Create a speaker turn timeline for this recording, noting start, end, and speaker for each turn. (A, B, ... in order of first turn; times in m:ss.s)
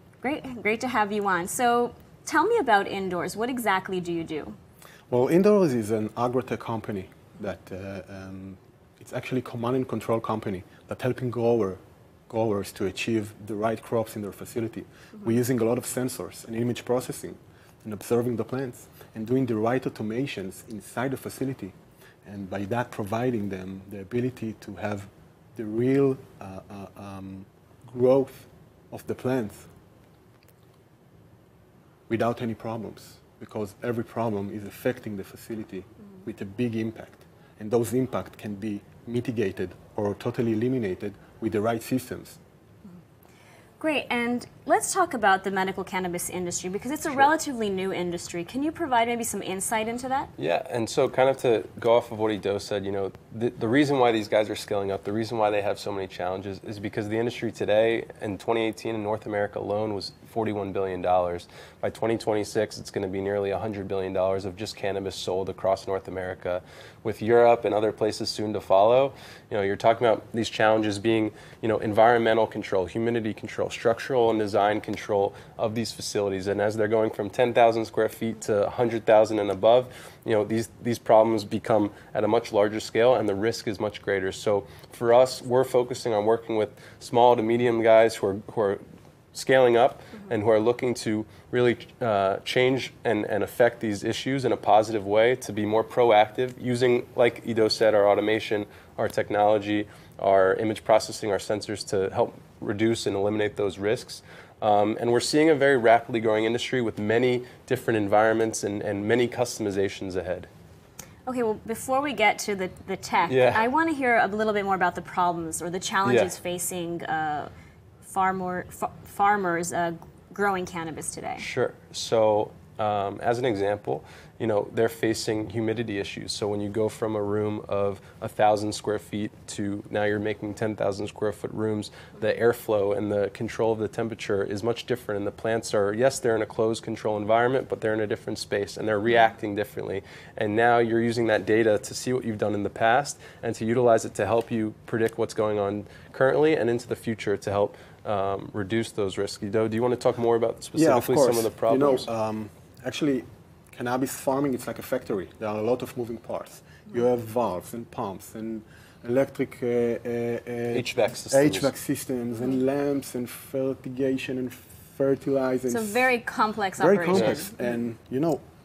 0:00.2-0:04.6 A
0:05.1-0:29.7 B
0:32.1-0:42.4 B
0:43.8-0:50.3 A
0:50.4-1:28.8 C
1:29.3-1:50.5 C
1:51.3-1:57.5 A
1:53.3-1:53.7 C
1:56.0-1:56.3 C
1:58.0-2:01.5 A
2:01.4-2:32.1 C
2:30.8-2:46.1 B
2:40.7-2:41.7 C
2:45.7-2:47.5 A
2:46.8-2:48.4 B
2:47.1-2:47.4 C